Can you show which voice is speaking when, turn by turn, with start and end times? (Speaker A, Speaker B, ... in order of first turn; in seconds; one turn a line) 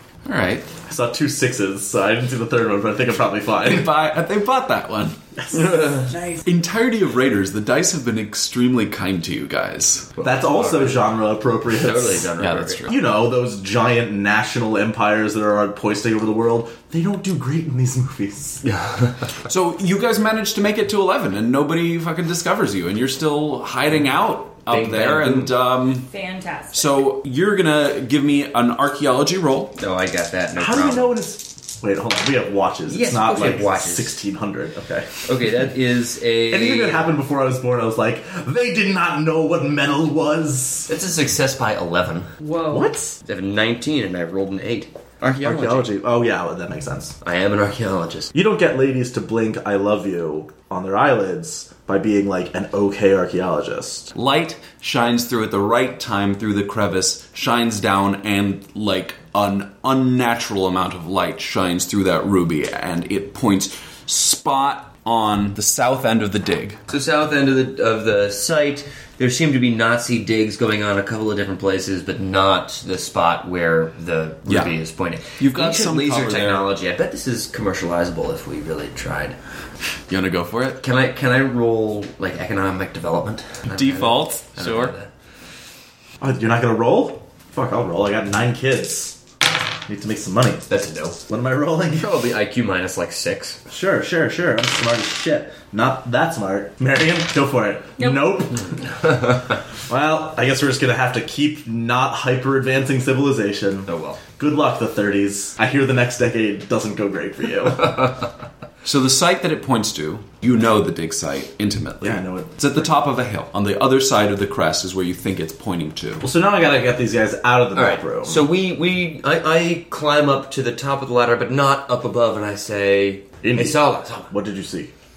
Speaker A: 0.2-0.7
Speaker B: 0.9-3.9
Speaker A: 3.6-5.2
Speaker B: 5.4-6.4
Speaker C: 5.5-6.1
Speaker A: 6.4-10.1
Speaker B: 10.2-12.3
Speaker C: 10.2-11.0
Speaker C: 11.7-12.9
Speaker A: 12.4-13.0
Speaker B: 12.9-18.6
Speaker C: 18.6-19.1
Speaker A: 19.5-26.1
Speaker C: 24.7-25.5
Speaker D: 26.1-27.0
Speaker A: 26.7-29.7
Speaker C: 29.8-31.2
Speaker B: 30.6-35.1
Speaker C: 32.9-34.2
Speaker C: 35.3-37.1
Speaker B: 36.5-40.9
Speaker C: 40.9-42.3
Speaker D: 42.4-42.9
Speaker B: 42.7-43.2
Speaker C: 43.2-45.9
Speaker B: 45.4-47.2
Speaker C: 47.2-48.3
Speaker B: 48.3-54.1
Speaker A: 54.1-66.8
Speaker C: 66.9-79.3
Speaker A: 74.5-76.7
Speaker A: 80.1-80.8
Speaker C: 80.8-85.1
Speaker A: 83.7-84.9
Speaker B: 86.2-89.2
Speaker B: 89.9-90.7
Speaker C: 90.7-91.2
Speaker B: 91.3-92.1
Speaker C: 92.0-93.6
Speaker B: 93.7-99.3
Speaker D: 98.0-98.4
Speaker B: 99.9-108.2
Speaker C: 103.9-104.2
Speaker A: 108.8-116.2
Speaker B: 112.0-112.9
Speaker B: 116.2-118.5
Speaker C: 117.7-124.3
Speaker B: 123.4-124.9